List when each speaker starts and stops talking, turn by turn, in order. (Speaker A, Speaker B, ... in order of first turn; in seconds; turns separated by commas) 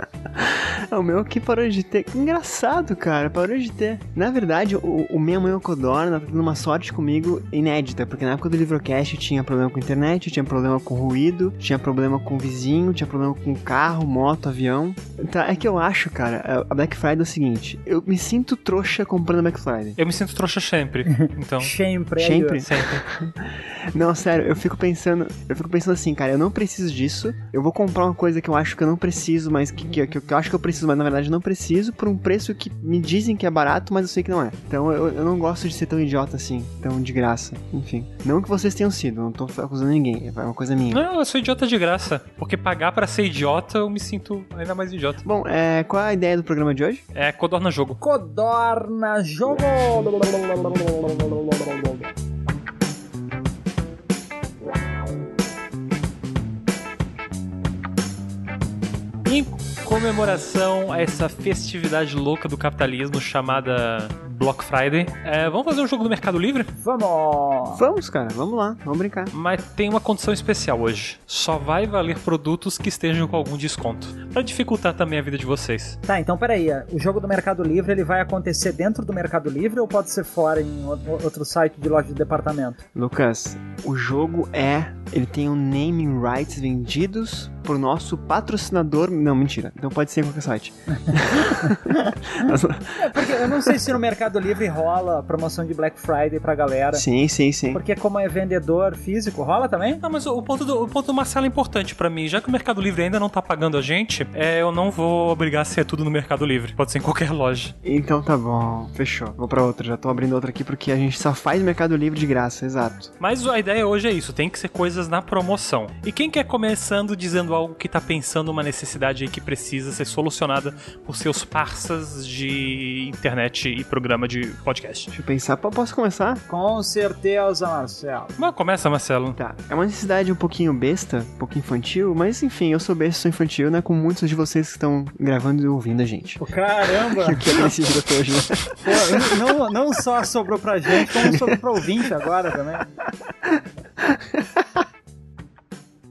Speaker A: 0.3-20.0, Speaker B: 20.0-21.7, Speaker C: 21.1-22.6, Speaker A: 22.2-41.0, Speaker B: 22.6-23.0, Speaker B: 40.9-45.2, Speaker A: 45.2-47.0, Speaker B: 47.1-48.0, Speaker C: 48.0-51.9, Speaker B: 59.2-66.7, Speaker C: 66.8-67.8, Speaker A: 67.7-69.3, Speaker B: 69.3-76.0, Speaker C: 76.1-82.8, Speaker A: 82.9-93.8, Speaker C: 91.1-92.1, Speaker C: 93.0-97.0, Speaker A: 96.9-97.8, Speaker C: 97.7-100.0, Speaker B: 100.0-107.7, Speaker A: 107.8-113.1, Speaker B: 113.2-125.1, Speaker A: 125.1-126.4, Speaker C: 126.5-128.3, Speaker B: 128.4-129.4, Speaker A: 129.4-136.4, Speaker C: 136.4-137.7, Speaker A: 137.0-139.4, Speaker C: 138.8-142.9, Speaker A: 141.0-141.6, Speaker A: 143.4-144.8